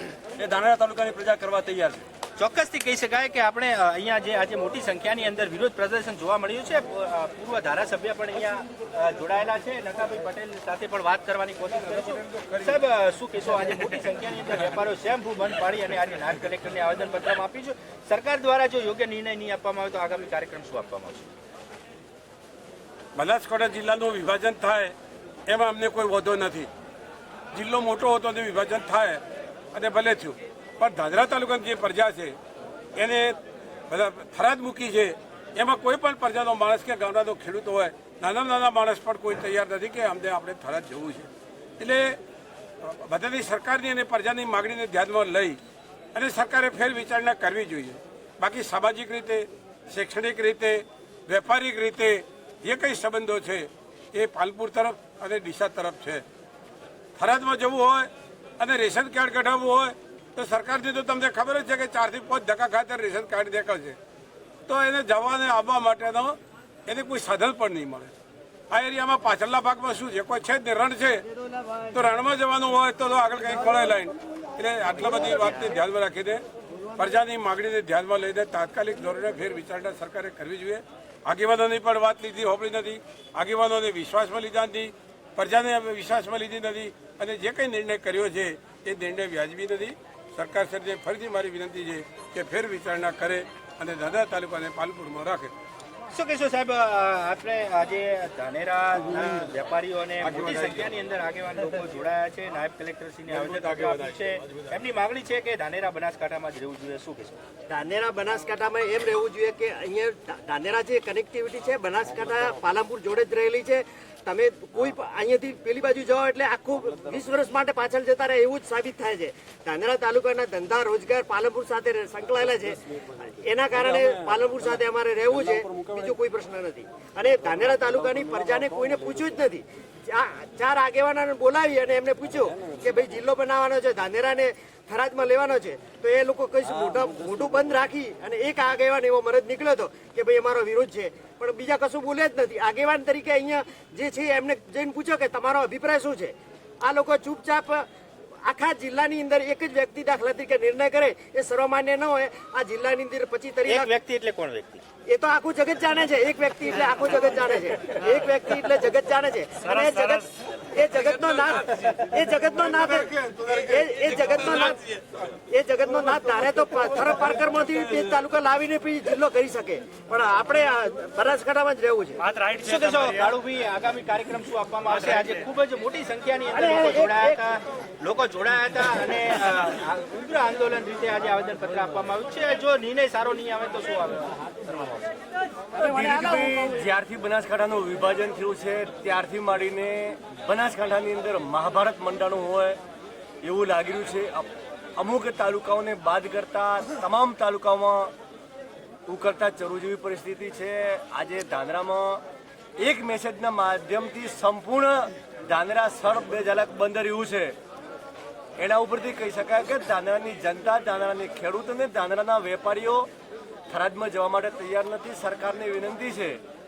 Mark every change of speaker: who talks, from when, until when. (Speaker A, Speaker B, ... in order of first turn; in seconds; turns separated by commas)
Speaker A: 0.4-2.0, Speaker B: 2.4-21.3, Speaker C: 23.2-24.9, Speaker C: 25.5-26.7, Speaker C: 27.5-29.2, Speaker C: 29.7-32.3, Speaker C: 33.0-33.4, Speaker C: 33.9-41.3, Speaker C: 41.8-42.1, Speaker C: 42.8-45.6, Speaker C: 46.1-56.2, Speaker C: 57.2-58.1, Speaker C: 58.6-64.0, Speaker C: 64.7-66.3, Speaker C: 66.9-68.1, Speaker C: 68.7-71.2, Speaker C: 71.9-76.4, Speaker C: 77.0-95.5, Speaker B: 96.1-107.4, Speaker D: 107.7-147.9, Speaker A: 123.8-126.1, Speaker A: 127.4-129.2, Speaker D: 148.4-153.9, Speaker B: 153.7-154.8, Speaker D: 155.1-164.8, Speaker D: 165.5-172.2, Speaker B: 172.6-185.0, Speaker D: 176.6-177.4, Speaker E: 185.7-192.8, Speaker E: 193.4-198.1, Speaker E: 199.1-202.2, Speaker E: 202.8-207.6, Speaker E: 208.6-213.1, Speaker E: 213.7-216.4